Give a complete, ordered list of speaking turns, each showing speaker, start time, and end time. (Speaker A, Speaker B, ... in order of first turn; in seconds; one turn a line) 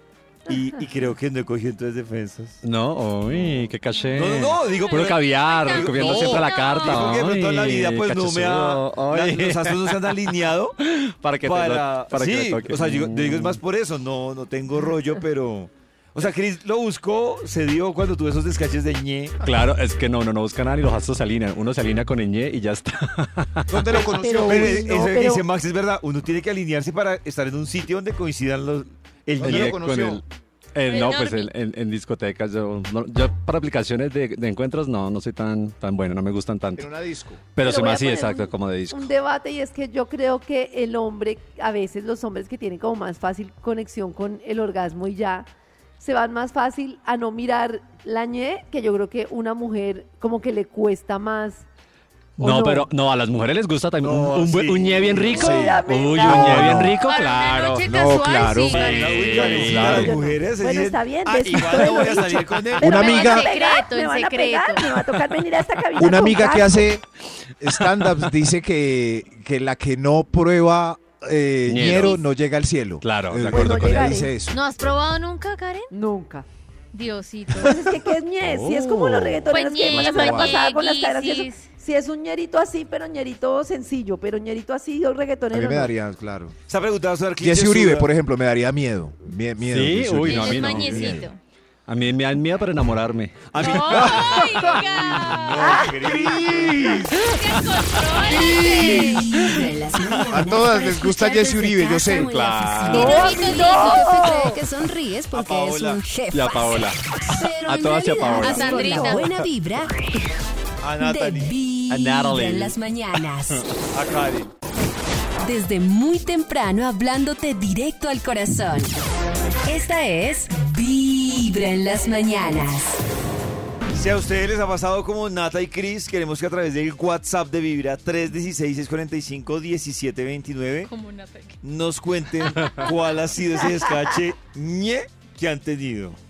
Speaker A: 0.5-2.6
Speaker B: 2.6-13.6
Speaker A: 4.1-10.8
Speaker C: 4.6-7.2
Speaker A: 11.4-19.4
Speaker B: 19.4-24.1
Speaker D: 23.7-25.0
Speaker E: 24.1-25.4
Speaker A: 24.4-29.9
Speaker B: 29.4-30.2
Speaker D: 29.4-30.2
Speaker B: 30.7-37.0
Speaker C: 30.9-31.5
Speaker D: 36.8-37.4
Speaker B: 37.5-39.1
Speaker E: 37.6-45.5
Speaker E: 46.0-51.6
Speaker B: 52.4-57.9
Speaker E: 52.4-52.9
Speaker A: 54.0-55.4
Speaker E: 55.2-56.8
Speaker D: 55.3-57.0
Speaker C: 57.0-59.6
Speaker D: 57.8-59.0
Speaker A: 58.7-63.1
Speaker B: 58.8-60.1
Speaker D: 59.5-60.1
Speaker E: 59.7-66.9
Speaker D: 62.8-63.5
Speaker C: 62.8-64.9
Speaker D: 66.0-67.0
Speaker D: 67.6-74.6
Speaker B: 71.7-72.2
Speaker B: 73.0-74.2
Speaker E: 73.5-74.3
Speaker C: 74.5-75.9
Speaker E: 75.9-76.5
Speaker C: 76.9-77.8
Speaker E: 77.5-85.9
Speaker B: 78.4-79.5
Speaker C: 79.5-81.7
Speaker D: 80.0-80.6
Speaker D: 85.5-86.5
Speaker A: 86.7-88.1
Speaker D: 87.4-91.3
Speaker B: 89.6-91.2
Speaker C: 90.2-91.4
Speaker B: 91.9-94.0
Speaker A: 93.5-97.3
Speaker C: 93.6-95.9
Speaker E: 95.6-95.9
Speaker D: 96.1-96.7
Speaker C: 97.1-99.2
Speaker A: 98.2-99.0
Speaker F: 98.4-110.0
Speaker D: 98.6-98.9
Speaker D: 100.3-102.3
Speaker B: 102.1-103.3
Speaker C: 102.9-104.3
Speaker E: 102.9-104.6
Speaker A: 105.3-106.0
Speaker B: 106.3-107.0
Speaker B: 107.6-109.5
Speaker C: 108.4-109.3
Speaker A: 110.8-111.5
Speaker F: 111.0-113.7
Speaker B: 111.9-112.8
Speaker A: 113.9-114.5
Speaker F: 115.4-119.0
Speaker F: 119.7-123.0
Speaker A: 123.9-130.9
Speaker C: 130.9-131.6
Speaker A: 131.6-136.2